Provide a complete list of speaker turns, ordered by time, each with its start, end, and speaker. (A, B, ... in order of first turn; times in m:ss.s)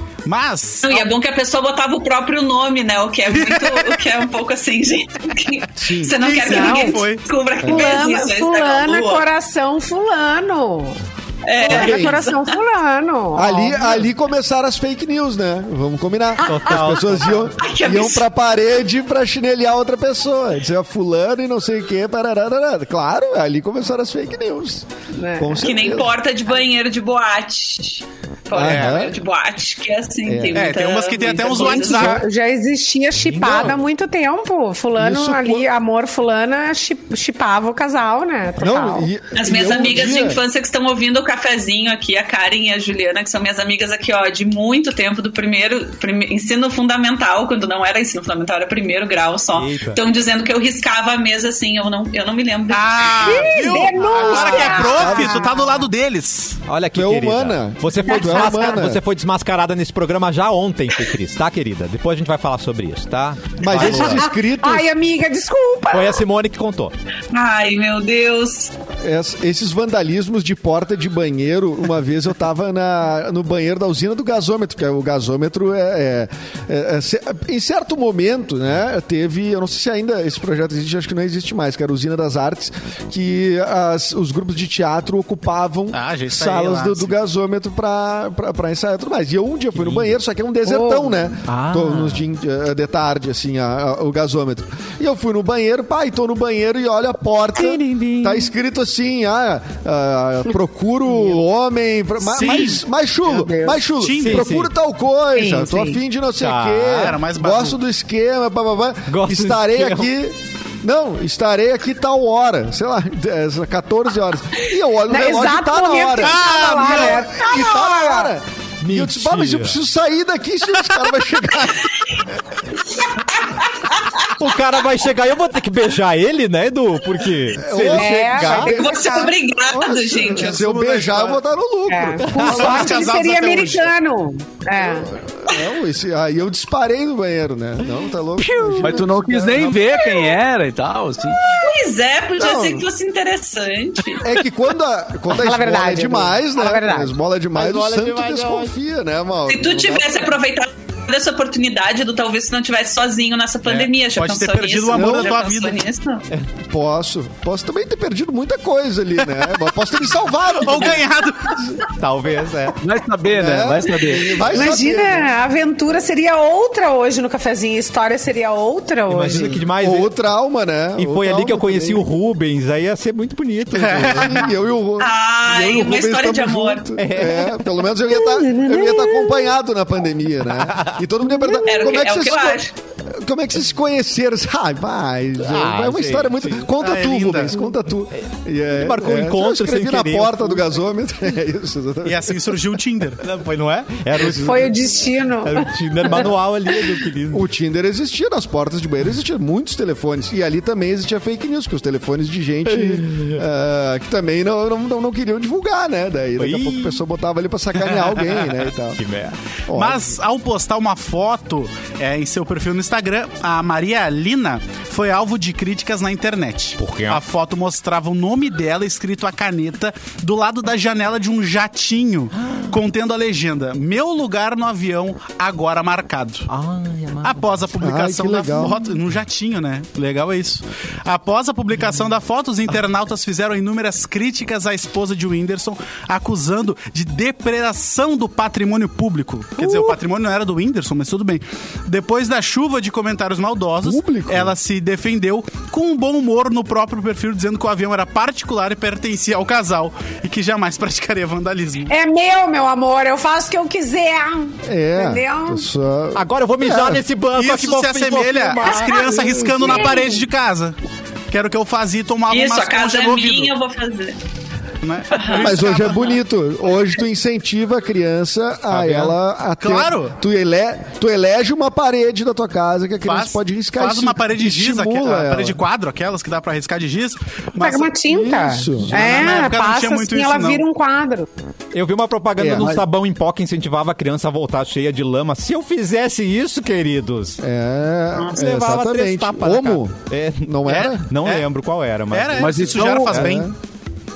0:00.2-0:01.1 A
0:00.8-0:09.3 B
0:03.3-0:03.9 A
0:05.8-0:06.2 C
0:06.0-0:07.3 A
0:06.5-0:07.0 D
0:07.6-0:08.0 C
0:07.6-0:11.0 D
0:11.4-0:12.6 B
0:11.6-0:13.9 D
0:11.7-0:12.2 C
0:13.4-0:26.1 C
0:16.4-0:17.5 E
0:17.6-0:18.3 B
0:25.2-0:25.7 D
0:25.6-0:32.2 B
0:28.5-0:29.2 C
0:28.6-0:29.0 A
0:30.2-0:30.7 C
0:30.5-0:32.2 A
0:31.5-0:39.1 D
0:33.3-0:33.8 E
0:33.4-0:33.7 C
0:35.0-0:35.7 C
0:38.6-0:40.4 C
0:39.3-0:53.6 B
0:49.6-0:50.0 E
0:52.7-0:56.6 A
0:53.2-0:55.8 D
0:54.3-0:55.5 C
0:56.7-1:04.3 E
0:56.9-0:59.0 C
0:58.1-0:58.9 D
1:03.6-1:04.9 C
1:03.7-1:06.2 D
1:05.9-1:06.9 E
1:07.3-1:08.7 B
1:09.0-2:02.3 C
1:25.9-1:27.1 A
1:29.8-1:30.1 E
1:30.7-1:31.3 D
1:31.5-1:32.3 E
1:37.6-1:38.5 E
1:42.3-1:42.8 A
1:43.3-1:43.8 D
1:44.0-1:44.5 A
1:44.2-1:44.7 E
1:45.3-1:46.0 D
1:46.4-1:47.1 E
1:46.9-1:47.8 A
1:49.1-1:50.1 E
1:55.1-1:58.3 D
1:56.2-1:57.2 A
1:58.9-1:59.8 E
2:03.4-2:04.3 B
2:04.4-2:08.8 E
2:07.6-2:13.0 C
2:07.8-2:09.4 D
2:08.6-2:10.7 B
2:10.3-2:11.4 A
2:11.9-2:15.1 D
2:12.3-2:12.5 E
2:12.5-2:13.9 A
2:14.8-2:19.7 C
2:18.5-2:18.8 E
2:18.8-2:21.4 F
2:21.5-2:24.3 B
2:22.4-2:22.9 C
2:24.2-2:30.3 C
2:25.3-2:27.1 D
2:27.6-2:28.7 E
2:29.5-2:36.3 B
2:33.7-2:35.8 A
2:35.0-2:35.3 C
2:36.7-2:41.8 C
2:40.6-2:41.6 A
2:41.9-2:42.8 E
2:42.8-2:44.5 F
2:43.3-2:45.3 C
2:44.4-2:49.6 D
2:49.1-2:50.1 E
2:49.3-2:52.1 C
2:51.0-2:54.5 E
2:53.8-2:54.5 A
2:53.9-3:12.4 C
2:55.0-2:56.9 B
2:57.0-2:57.6 E
2:58.1-2:59.6 D
3:00.5-3:01.0 E
3:01.3-3:01.7 D
3:01.7-3:02.7 B
3:05.4-3:06.7 E
3:06.8-3:07.6 A
3:08.7-3:10.6 E
3:12.0-3:13.2 A
3:13.2-3:14.9 E
3:14.2-3:14.6 C
3:14.2-3:16.3 D
3:15.4-3:17.4 E
3:17.3-3:29.0 C
3:22.7-3:23.4 E
3:26.4-3:27.0 E
3:29.0-3:29.4 E
3:29.7-3:30.2 C
3:29.7-3:46.5 A
3:36.8-3:37.2 E
3:42.4-3:42.8 E
3:46.5-3:47.5 E
3:47.2-4:11.9 A
3:47.8-3:48.8 C
4:03.8-4:04.5 C
4:11.9-4:15.6 D
4:14.6-4:17.0 C
4:16.2-4:19.5 E
4:17.3-4:20.8 A
4:18.7-4:20.3 D
4:21.3-4:23.5 A
4:22.3-4:24.2 B
4:24.8-4:26.2 A
4:25.1-4:25.6 B
4:25.4-4:35.6 C
4:28.7-4:29.2 E
4:29.6-4:30.2 A
4:33.0-4:37.9 A
4:37.6-4:41.3 D
4:38.0-4:39.2 C
4:38.9-4:40.6 A
4:41.7-4:47.4 E
4:42.4-4:42.8 C
4:42.6-4:42.8 F
4:47.4-4:51.1 C
4:48.3-4:53.4 E
4:50.7-4:51.5 A
4:52.1-4:53.5 A
4:52.4-4:53.2 F
4:53.1-4:53.5 C